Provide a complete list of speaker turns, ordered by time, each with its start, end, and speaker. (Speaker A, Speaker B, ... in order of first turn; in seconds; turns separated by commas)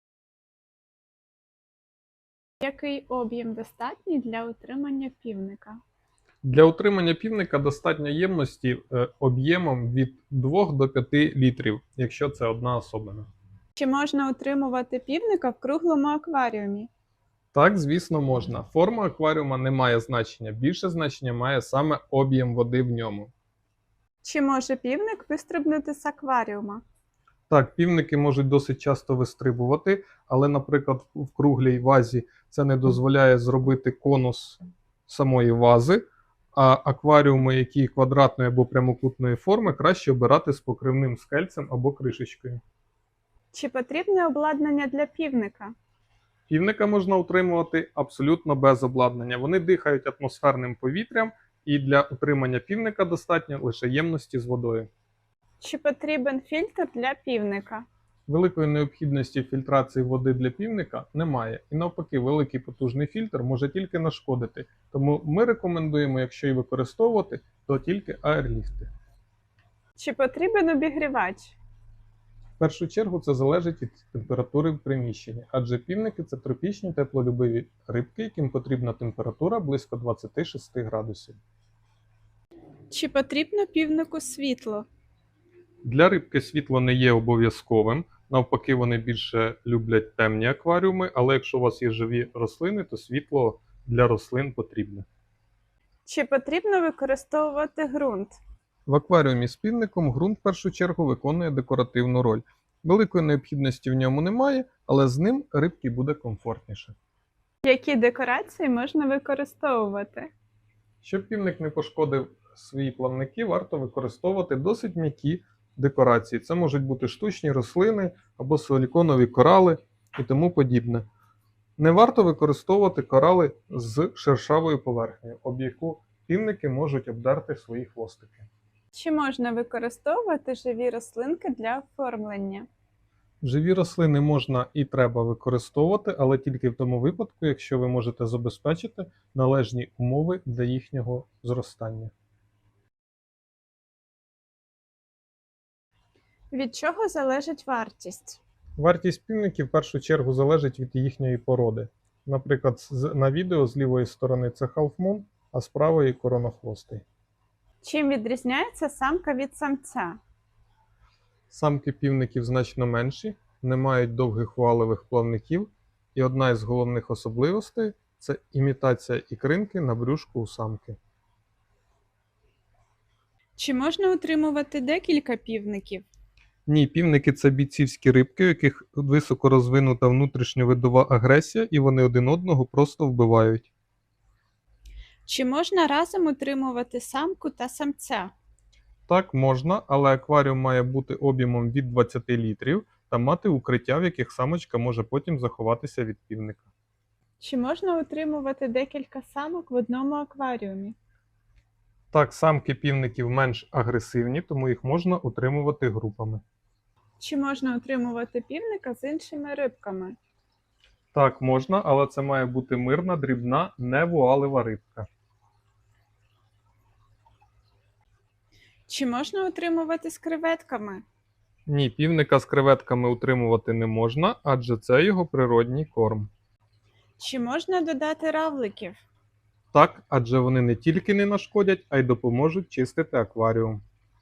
Speaker A: 2.6-5.8, Speaker B: 6.4-13.3, Speaker A: 13.8-16.9, Speaker B: 17.5-23.3, Speaker A: 24.2-26.8, Speaker B: 27.5-36.0, Speaker B: 36.5-42.6, Speaker A: 43.5-45.7, Speaker B: 46.5-54.9, Speaker A: 55.6-57.9, Speaker B: 58.3-68.9, Speaker A: 70.0-71.6, Speaker B: 72.6-81.4, Speaker A: 82.9-84.9, Speaker B: 85.8-95.1, Speaker A: 96.1-98.4, Speaker B: 98.9-107.0, Speaker A: 107.6-110.3, Speaker B: 111.0-121.1, Speaker B: 121.8-128.5, Speaker A: 128.9-132.7, Speaker B: 133.4-142.1, Speaker A: 146.5-148.4, Speaker B: 148.8-157.0, Speaker A: 157.8-160.2, Speaker B: 161.5-171.0, Speaker A: 173.6-176.1, Speaker B: 176.7-183.7, Speaker A: 185.3-188.3, Speaker B: 189.1-196.7, Speaker A: 197.4-201.0, Speaker B: 202.1-206.4, Speaker A: 207.2-210.2, Speaker B: 211.1-215.1, Speaker A: 218.9-221.0, Speaker B: 221.7-226.3, Speaker A: 227.2-229.0, Speaker B: 229.7-233.8